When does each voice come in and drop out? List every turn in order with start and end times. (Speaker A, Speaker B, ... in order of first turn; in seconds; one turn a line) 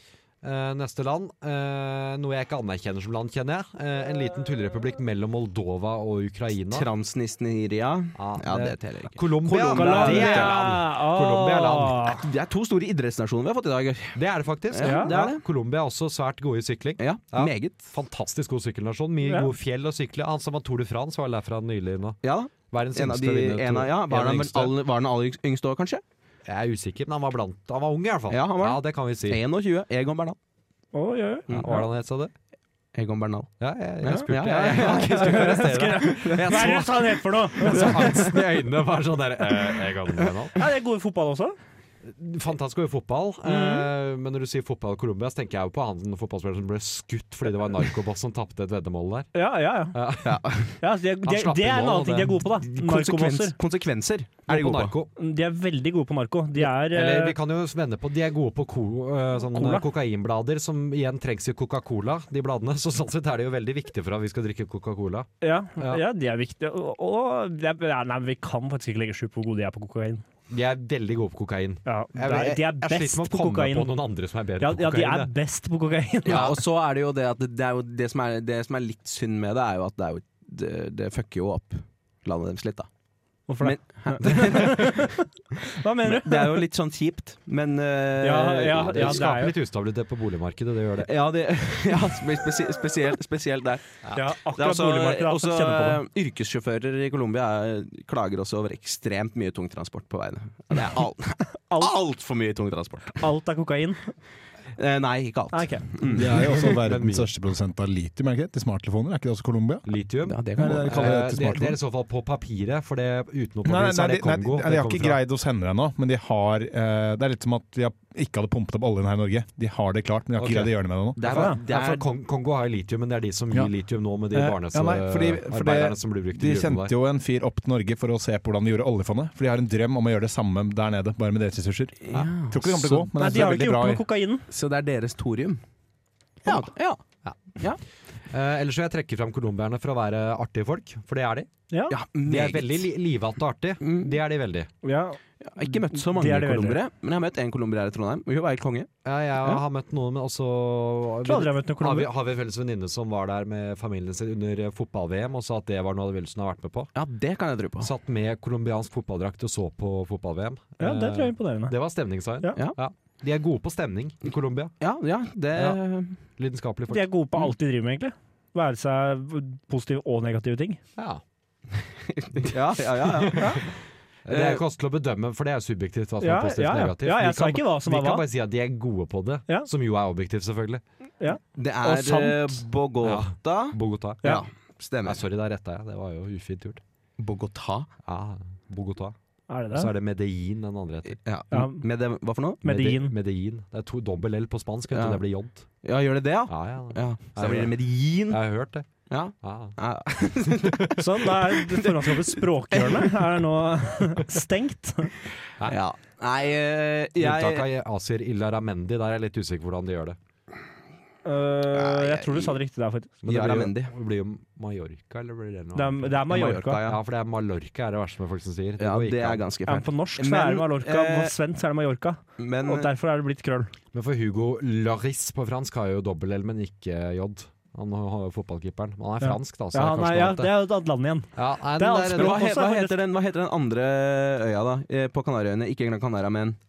Speaker A: 0.4-6.9
Speaker B: 6.7-10.6
Speaker A: 8.2-12.1
Speaker C: 9.7-12.2
Speaker B: 12.1-14.2
Speaker A: 14.2-22.2
Speaker B: 14.7-15.4
Speaker C: 14.8-15.2
Speaker B: 17.0-17.9
Speaker C: 19.3-19.5
Speaker B: 22.2-26.0
Speaker A: 22.7-24.7
Speaker A: 26.5-29.4
Speaker B: 28.3-30.4
Speaker C: 30.9-31.9
Speaker A: 31.5-32.3
Speaker B: 33.0-33.5
Speaker A: 33.6-40.5
Speaker B: 34.0-36.8
Speaker C: 34.7-38.3
Speaker B: 37.6-38.3
Speaker C: 40.5-41.6
Speaker A: 42.0-49.3
Speaker C: 43.5-43.9
Speaker C: 49.4-50.0
Speaker A: 49.9-50.4
Speaker B: 50.2-50.8
Speaker C: 50.8-53.5
Speaker A: 51.2-52.4
Speaker B: 52.6-54.9
Speaker A: 54.5-55.1
Speaker C: 55.2-57.4
Speaker A: 56.6-66.0
Speaker C: 59.4-59.9
Speaker C: 65.4-70.2
Speaker A: 70.5-75.3
Speaker C: 71.9-73.9
Speaker C: 74.6-76.6
Speaker B: 76.3-82.9
Speaker A: 76.3-76.6
Speaker C: 83.5-86.7
Speaker B: 83.6-85.1
Speaker B: 86.0-89.3
Speaker C: 88.2-89.5
Speaker A: 88.7-91.1
Speaker B: 91.1-94.0
Speaker C: 94.2-96.0
Speaker B: 94.5-103.2
Speaker C: 103.2-104.1
Speaker B: 104.8-106.7
Speaker C: 105.5-105.9
Speaker A: 106.1-107.3
Speaker D: 106.1-109.9
Speaker A: 109.8-115.2
Speaker B: 110.3-111.4
Speaker D: 110.6-111.8
Speaker D: 113.7-121.2
Speaker A: 120.4-126.9
Speaker B: 121.2-122.0
Speaker C: 121.3-121.6
Speaker D: 124.3-134.0
Speaker B: 132.1-132.6
Speaker A: 132.1-133.1
Speaker C: 133.2-134.4
Speaker B: 134.5-135.6
Speaker B: 136.4-137.0
Speaker A: 138.3-141.5
Speaker C: 141.7-142.0
Speaker B: 141.9-142.9
Speaker A: 142.2-144.7
Speaker B: 143.8-144.2
Speaker C: 144.8-146.8
Speaker B: 145.4-148.9
Speaker A: 149.1-156.9
Speaker C: 151.2-152.1
Speaker B: 156.9-157.9
Speaker A: 157.8-164.8
Speaker C: 160.8-161.8
Speaker B: 164.8-166.2
Speaker A: 166.4-167.1
Speaker C: 166.9-170.8
Speaker A: 171.0-171.2
Speaker B: 172.1-173.6
Speaker A: 172.4-173.6
Speaker C: 173.4-173.6
Speaker A: 174.2-180.8
Speaker B: 174.3-174.6
Speaker C: 176.2-178.2
Speaker C: 181.2-182.6
Speaker B: 181.6-185.2
Speaker A: 183.0-184.4
Speaker A: 185.1-186.8
Speaker B: 187.2-187.9
Speaker A: 188.1-189.2
Speaker C: 189.5-189.9
Speaker A: 189.7-191.2
Speaker B: 191.2-192.7
Speaker C: 191.5-191.8
Speaker A: 192.6-195.7
Speaker C: 192.7-193.1
Speaker B: 194.9-195.2
Speaker B: 195.8-198.4
Speaker A: 196.5-197.7
Speaker A: 198.3-198.9
Speaker B: 199.1-203.3
Speaker A: 199.4-199.8
Speaker A: 200.5-200.9
Speaker C: 201.0-205.1
Speaker B: 205.6-207.7
Speaker A: 207.2-210.2
Speaker C: 211.2-213.1
Speaker B: 211.7-212.6
Speaker A: 213.2-219.4
Speaker B: 213.3-213.9
Speaker C: 215.8-216.8
Speaker B: 216.3-217.0
Speaker B: 218.8-221.3
Speaker C: 219.7-223.7
Speaker B: 222.4-222.9
Speaker A: 223.9-230.5
Speaker C: 229.2-233.0
Speaker A: 231.3-232.5
Speaker B: 232.1-236.6